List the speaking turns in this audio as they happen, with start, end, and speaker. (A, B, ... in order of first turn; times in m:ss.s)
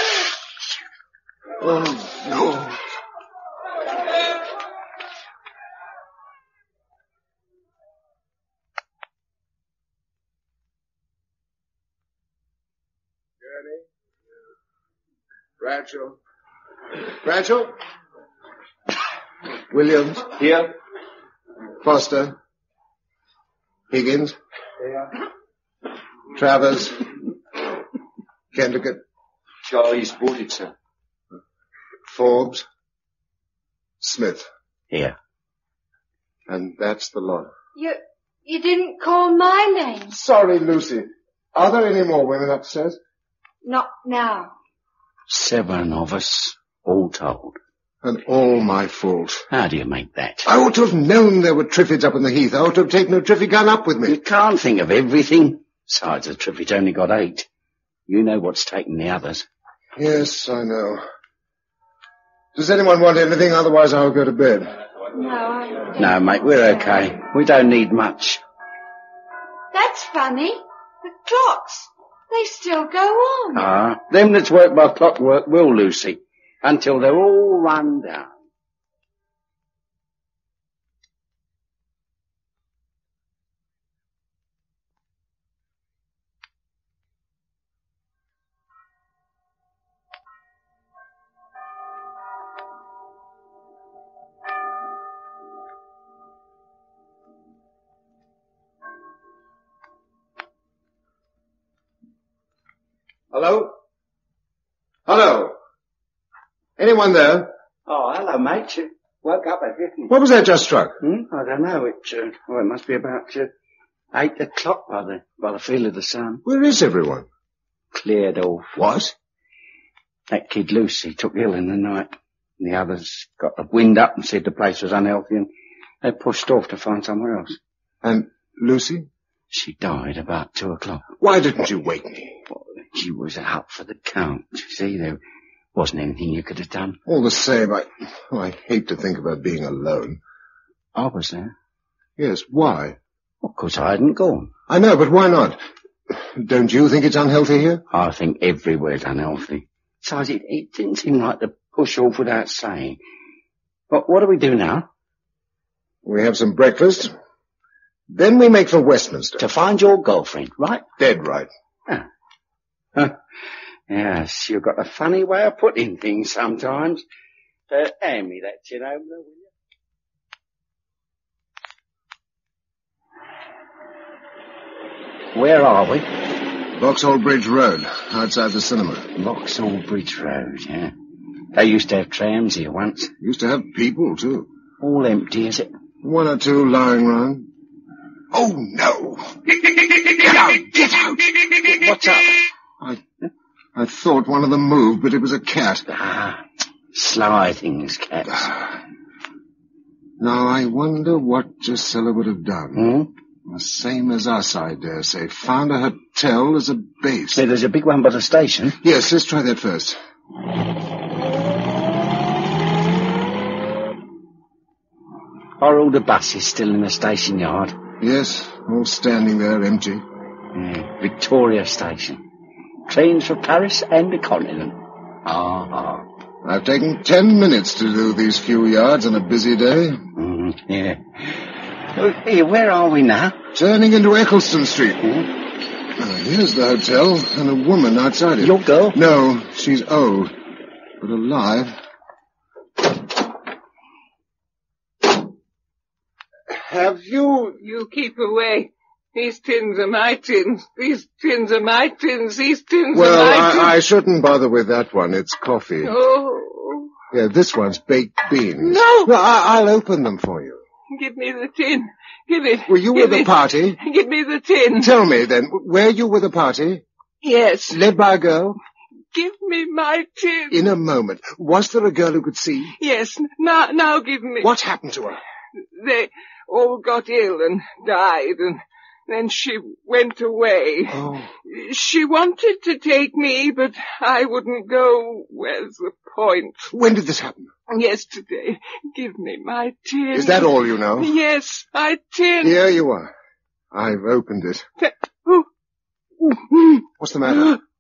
0:01.6-0:02.8 A
0:13.4-0:13.8 A
0:15.6-0:16.2 A
0:17.2-0:17.8 A
0:19.7-0:20.3 A
0:20.4-0:20.7 B
0:21.8-0:22.4 A
0:23.9-0:24.4 A
0:26.3-0:27.1 A
0:28.5-0:29.0 A
0:29.7-0:30.7 B
0:32.1-0:32.6 A
0:34.0-0:34.5 A
0:34.9-0:35.2 B
0:36.5-0:37.5 A
0:37.8-0:40.2 C
0:40.1-0:43.0 A
0:43.6-0:44.5 C
0:45.3-0:47.6 B
0:48.0-0:49.5 A
0:49.5-0:50.5 B
0:50.4-0:54.2 A
0:54.1-0:57.5 B
0:58.1-0:59.4 B
1:00.0-1:01.0 A
1:02.6-1:04.7 A
1:05.1-1:05.9 C
1:06.0-1:08.4 B
1:09.7-1:13.6 C
1:13.5-1:18.4 B
1:43.3-1:43.8 A
1:45.1-1:45.6 A
1:46.8-1:47.5 A
1:47.9-1:50.1 B
1:50.1-1:51.0 A
1:51.0-1:53.5 B
1:54.1-1:56.4 B
1:56.4-1:57.3 A
1:57.9-1:58.8 B
1:58.8-1:59.1 A
2:00.3-2:05.5 B
2:06.0-2:07.6 B
2:08.0-2:09.1 A
2:09.5-2:11.0 B
2:11.2-2:12.4 A
2:12.5-2:15.2 B
2:15.8-2:17.0 B
2:17.1-2:20.2 A
2:21.0-2:21.5 B
2:22.2-2:23.0 A
2:23.4-2:24.5 B
2:24.7-2:25.6 A
2:26.1-2:27.8 A
2:27.9-2:33.0 B
2:33.9-2:34.9 B
2:36.0-2:37.1 A
2:38.1-2:39.4 A
2:39.4-2:40.8 B
2:41.0-2:41.5 A
2:43.9-2:47.0 B
2:47.7-2:49.5 B
2:55.3-2:56.1 B
2:56.7-2:59.1 A
2:59.2-3:00.9 B
3:01.5-3:03.1 B
3:03.2-3:04.5 A
3:04.8-3:05.7 B
3:06.0-3:07.5 A
3:08.3-3:11.8 A
3:11.7-3:12.4 B
3:13.8-3:15.9 A
3:15.9-3:16.4 B
3:16.9-3:18.5 B
3:18.3-3:18.6 A
3:20.2-3:23.0 A
3:22.8-3:23.1 B
3:23.5-3:27.4 A
3:27.4-3:28.8 B
3:28.8-3:30.0 A
3:35.6-3:37.8 B
3:38.0-3:40.1 A
3:40.5-3:42.2 B
3:42.9-3:46.1 B
3:46.4-3:50.0 A
3:50.2-3:53.4 B
3:53.5-3:55.4 A
3:56.0-4:00.4 A
3:58.4-3:59.0 B
4:01.0-4:01.8 A
4:06.5-4:07.6 A
4:07.6-4:13.8 D
4:12.9-4:16.0 A
4:15.8-4:16.9 D
4:17.1-4:20.6 A
4:18.6-4:19.1 D
4:20.9-4:24.9 D
4:22.7-4:23.8 A
4:24.8-4:26.8 A
4:27.2-4:27.8 D
4:27.7-4:28.6 A
4:29.1-4:30.6 D
4:30.5-4:32.8 A
4:32.8-4:34.5 D
4:34.4-4:35.2 A
4:35.8-4:46.7 D
4:40.9-4:41.3 A
4:46.7-4:47.5 A
4:47.7-4:52.6 D
4:50.1-4:51.2 A
4:52.4-4:53.1 A
4:53.7-4:54.7 A
4:56.5-4:56.8 D
4:57.0-4:57.6 A